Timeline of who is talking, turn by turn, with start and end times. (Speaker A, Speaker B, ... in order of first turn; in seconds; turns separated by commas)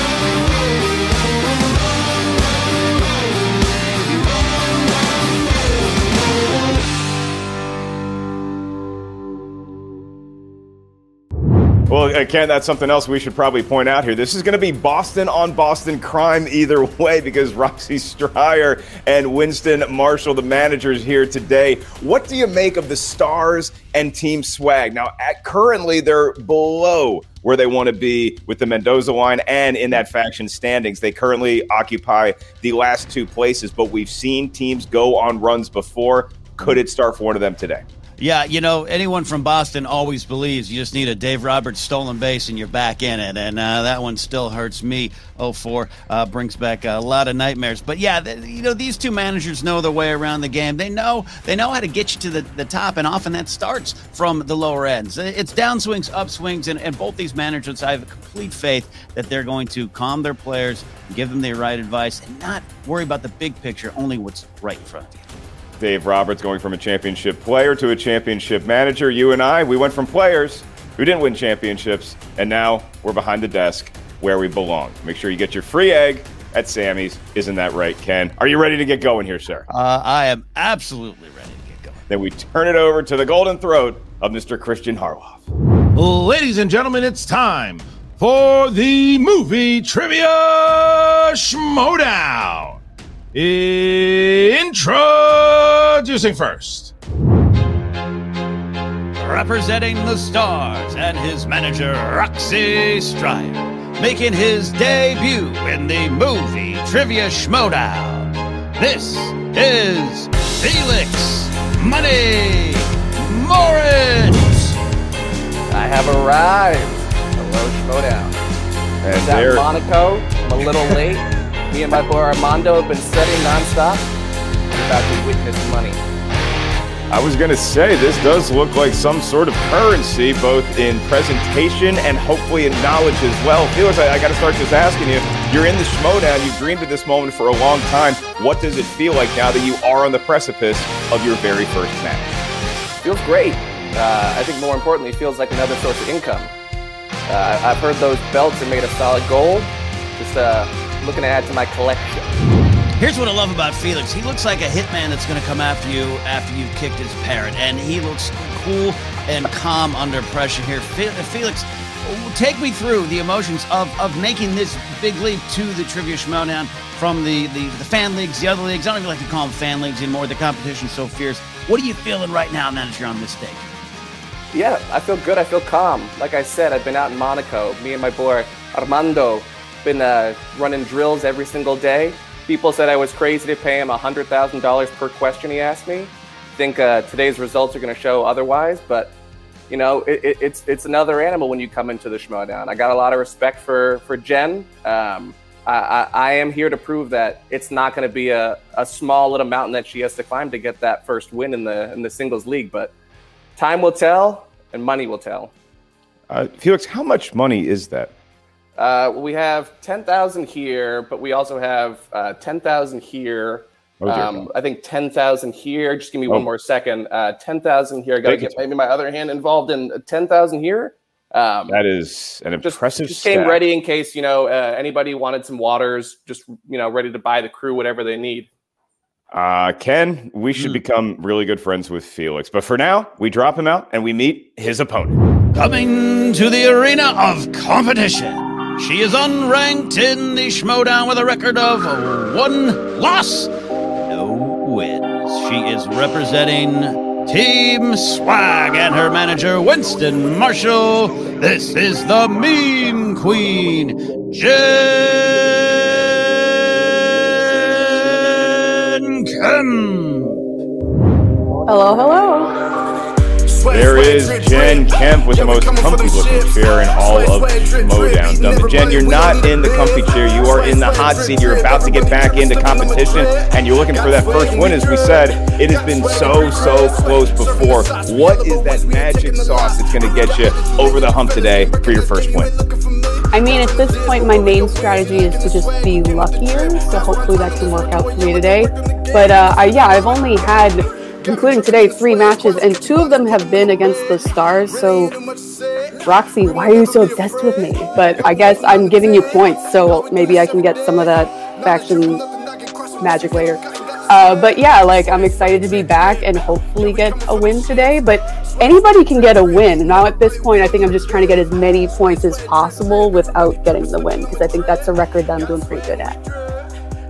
Speaker A: 11.9-37.8, Speaker B: 38.2-65.3, Speaker A: 65.8-79.7, Speaker B: 79.7-82.0, Speaker A: 82.1-85.5, Speaker C: 85.9-92.8, Speaker C: 93.3-96.9, Speaker B: 99.2-114.8, Speaker D: 115.7-118.4, Speaker A: 119.0-119.7, Speaker D: 119.2-124.1, Speaker D: 124.7-126.0, Speaker A: 127.1-142.3, Speaker D: 143.0-146.5, Speaker D: 147.3-152.3, Speaker B: 153.0-173.8, Speaker D: 174.5-189.1, Speaker D: 189.7-202.9, Speaker D: 203.6-205.5, Speaker A: 206.3-208.1, Speaker D: 208.8-221.8, Speaker A: 214.0-214.5, Speaker A: 218.2-218.6, Speaker A: 221.7-223.6, Speaker D: 222.6-228.5, Speaker A: 229.3-235.2, Speaker B: 235.5-260.4, Speaker E: 261.6-262.6, Speaker A: 263.7-282.5, Speaker E: 283.3-295.2, Speaker E: 296.0-302.3, Speaker E: 303.0-316.2